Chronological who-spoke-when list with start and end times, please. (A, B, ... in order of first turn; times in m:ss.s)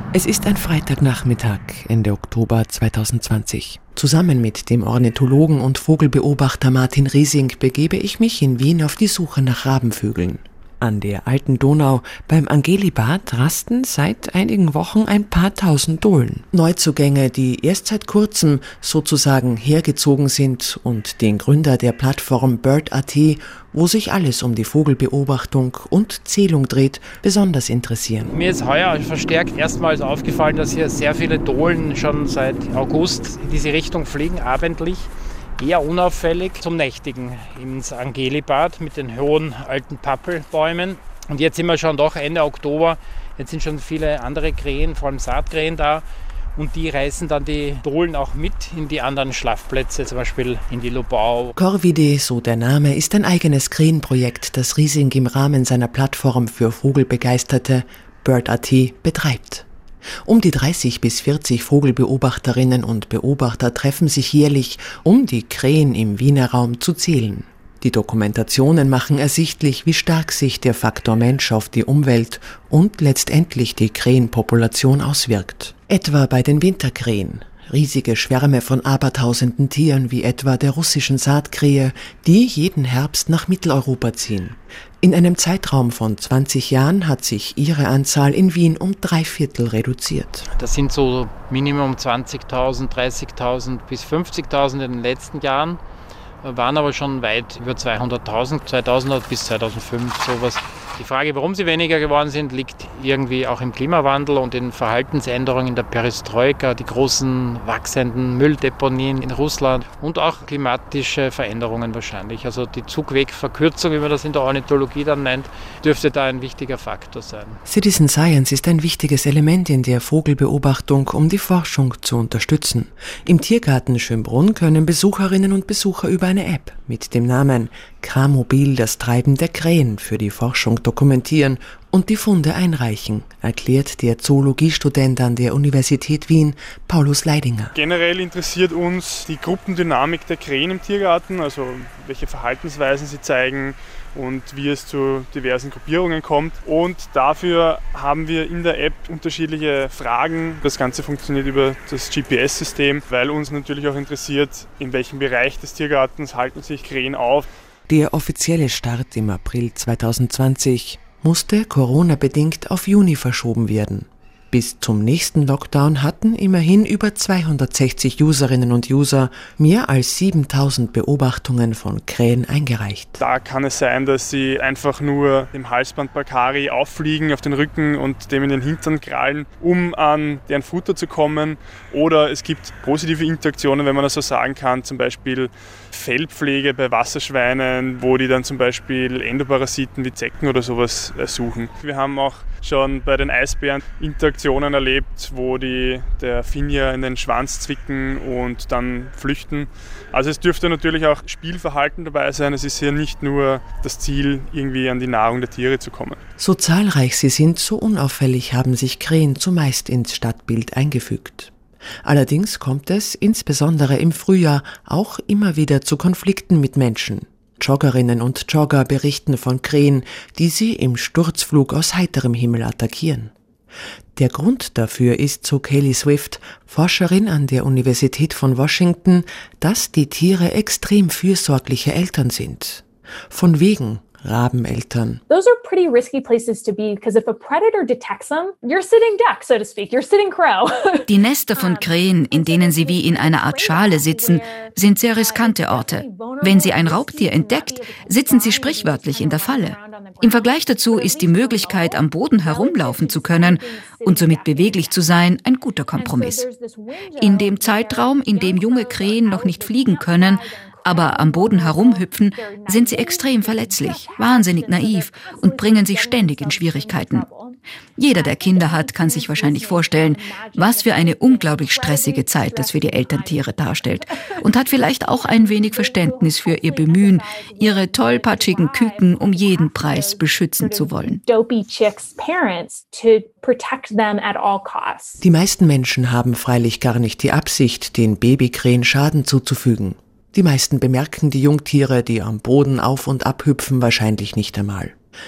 0:00.1-0:28.3 A
0:28.3-0:46.0 B
0:46.6-0:51.5 B
0:51.6-0:59.6 A
1:00.2-1:30.5 A
1:30.6-1:35.8 B
1:36.4-1:57.6 B
1:57.6-2:17.7 A
2:17.7-2:37.5 C
2:37.9-2:53.2 A
2:53.2-3:26.2 C
3:26.4-3:31.5 A
3:32.0-3:43.3 A
3:44.2-3:55.2 A
3:55.3-4:15.0 D
4:01.1-4:16.5 E
4:15.9-4:45.2 D
4:17.2-4:27.3 E
4:28.0-4:41.2 E
4:45.2-4:55.0 A